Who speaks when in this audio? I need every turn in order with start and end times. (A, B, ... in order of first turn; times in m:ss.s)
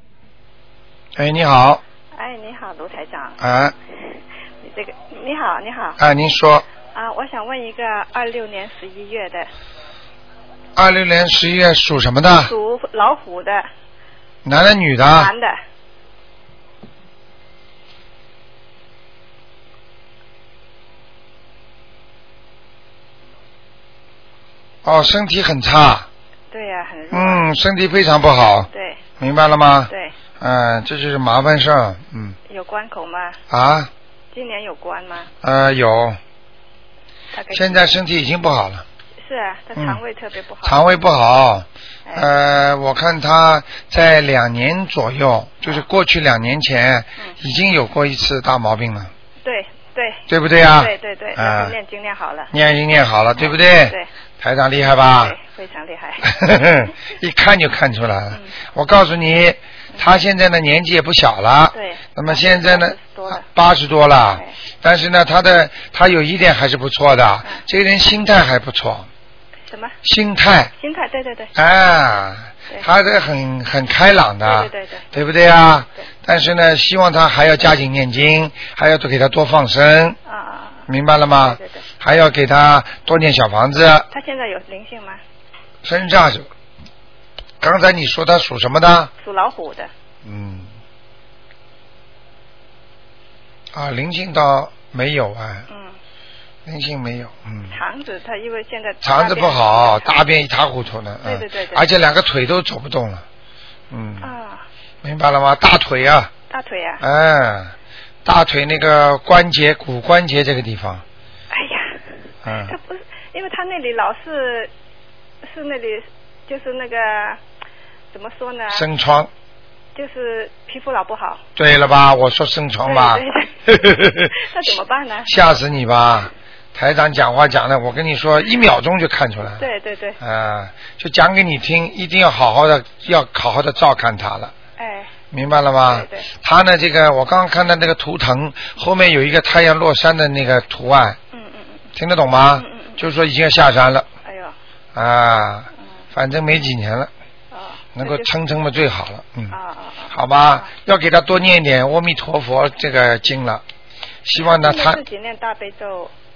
0:01.2-0:01.8 A
0:02.2-0:03.4 B
0:03.4-0:03.7 A
0:04.6-0:06.0 B
0:06.0-0:06.6 A
0:06.9-0:09.5 B
0:10.8-0:12.5 A
0:12.4-0:13.7 B
0:14.4-0:15.3 A
0:15.0-0:15.6 B
0:24.8-0:26.1 A
0:26.5-0:27.5 B
0:27.1-0:28.7 A
0:28.7-0:29.0 B
0:29.2-0:32.4 A
0:32.5-0:33.4 B
0:33.5-0:33.9 A
0:34.3-0:35.3 B
0:35.4-0:36.2 A
0:37.3-0:37.9 B
0:37.5-0:38.8 A
0:39.2-0:40.8 B
0:39.8-0:40.0 A
0:40.6-0:49.1 A
0:49.4-0:50.2 B
0:50.3-0:51.8 A
0:50.7-0:52.5 B
0:52.5-0:55.4 A
0:53.4-0:54.1 B
0:55.1-0:56.4 B
0:56.2-1:09.1 A
1:01.7-1:03.4 B
1:09.7-1:10.0 B
1:10.0-1:10.7 A
1:10.8-1:11.5 B
1:11.6-1:20.2 A
1:14.4-1:15.1 B
1:20.3-1:20.8 B
1:20.9-1:24.1 A
1:21.4-1:21.8 B
1:24.1-1:25.2 B
1:25.8-1:26.5 A
1:27.6-1:29.1 A
1:29.2-1:29.9 B
1:30.2-1:30.7 A
1:33.7-1:35.7 A
1:35.7-1:36.0 B
1:36.7-1:37.7 A
1:37.7-1:40.4 B
1:39.0-1:43.2 A
1:41.2-1:41.9 B
1:43.9-1:44.3 A
1:44.2-1:44.6 B
1:45.0-1:46.3 A
1:46.5-1:47.0 B
1:47.0-1:47.7 A
1:48.2-1:51.0 A
1:51.5-1:52.0 B
1:52.4-1:52.8 A
1:52.7-1:54.7 B
1:55.4-1:57.4 B
1:58.1-1:58.9 B
1:58.7-1:59.3 A
2:00.0-2:01.4 B
2:01.6-2:04.3 A
2:02.8-2:03.5 B
2:04.3-2:05.3 B
2:05.3-2:09.6 A
2:09.6-2:10.2 B
2:10.2-2:14.5 A
2:14.8-2:15.1 B
2:15.3-2:21.2 A
2:15.8-2:16.3 B
2:21.3-2:21.8 B
2:22.0-2:24.1 A
2:22.6-2:23.0 B
2:24.2-2:24.6 B
2:25.0-2:27.1 A
2:27.5-2:28.3 B
2:28.0-2:29.6 A
2:29.5-2:30.7 B
2:30.1-2:33.6 A
2:34.2-2:35.0 A
2:34.4-2:36.1 B